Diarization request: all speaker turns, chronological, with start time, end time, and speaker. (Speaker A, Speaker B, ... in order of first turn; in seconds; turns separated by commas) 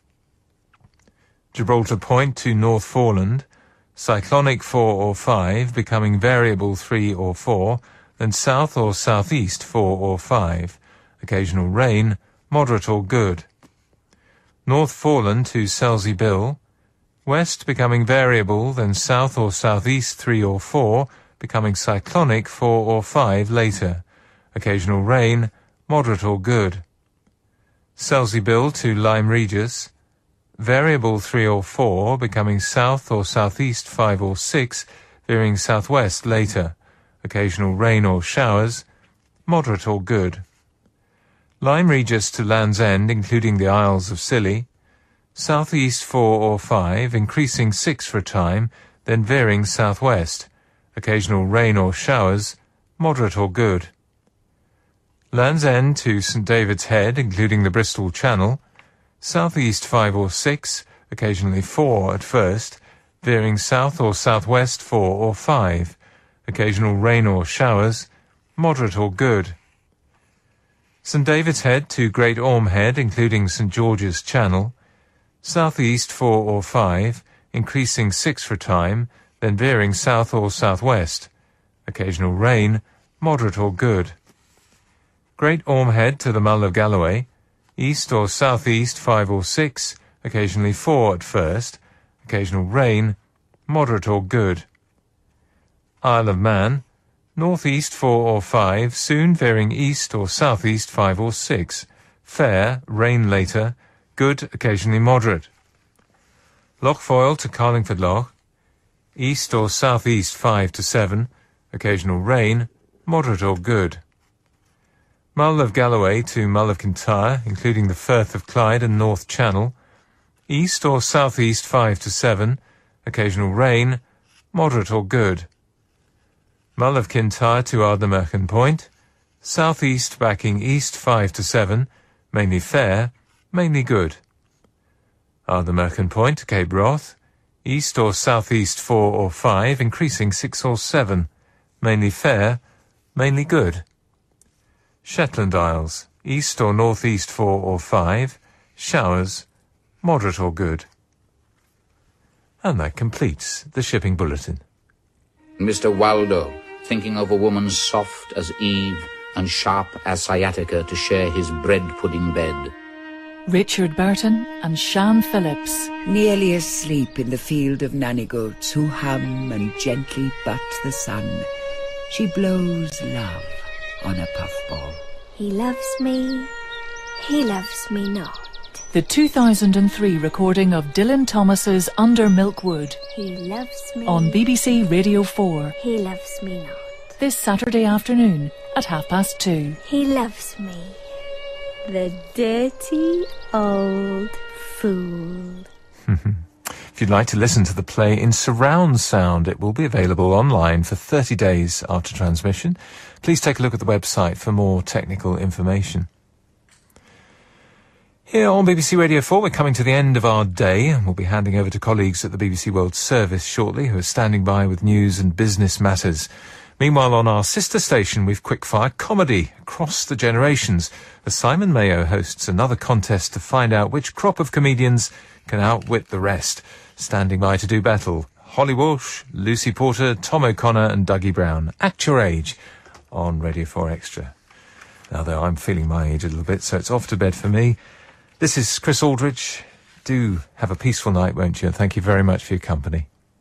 Speaker A: 1.5-13.5, Speaker A: 14.7-16.6, Speaker A: 17.2-24.0, Speaker A: 24.5-26.8, Speaker A: 28.0-29.9, Speaker A: 30.6-38.8, Speaker A: 39.5-40.4, Speaker A: 41.6-44.7, Speaker A: 45.3-53.9, Speaker A: 55.3-58.6, Speaker A: 59.2-69.6, Speaker A: 71.0-74.7, Speaker A: 75.4-81.3, Speaker A: 81.9-84.2, Speaker A: 85.4-94.7, Speaker A: 96.0-96.8, Speaker A: 97.3-105.5, Speaker A: 106.8-108.3, Speaker A: 109.2-114.0, Speaker A: 115.3-119.7, Speaker A: 120.5-124.0, Speaker A: 124.5-125.5, Speaker A: 126.8-128.9, Speaker A: 129.4-134.2, Speaker A: 135.5-141.3, Speaker A: 141.8-142.6, Speaker A: 143.1-143.8, Speaker A: 145.0-149.5, Speaker A: 150.0-150.9, Speaker A: 152.6-154.6, Speaker B: 155.6-162.7, Speaker C: 163.5-165.9, Speaker D: 166.0-171.5, Speaker D: 172.1-175.0, Speaker E: 175.3-176.5, Speaker E: 177.2-178.8, Speaker C: 178.9-183.0, Speaker E: 183.1-184.4, Speaker C: 184.1-185.8, Speaker E: 185.8-186.8, Speaker C: 187.2-189.8, Speaker E: 189.8-191.0, Speaker E: 191.8-195.7, Speaker A: 196.1-206.1, Speaker A: 208.3-232.6, Speaker A: 233.1-234.3, Speaker A: 235.1-237.8, Speaker A: 238.4-243.1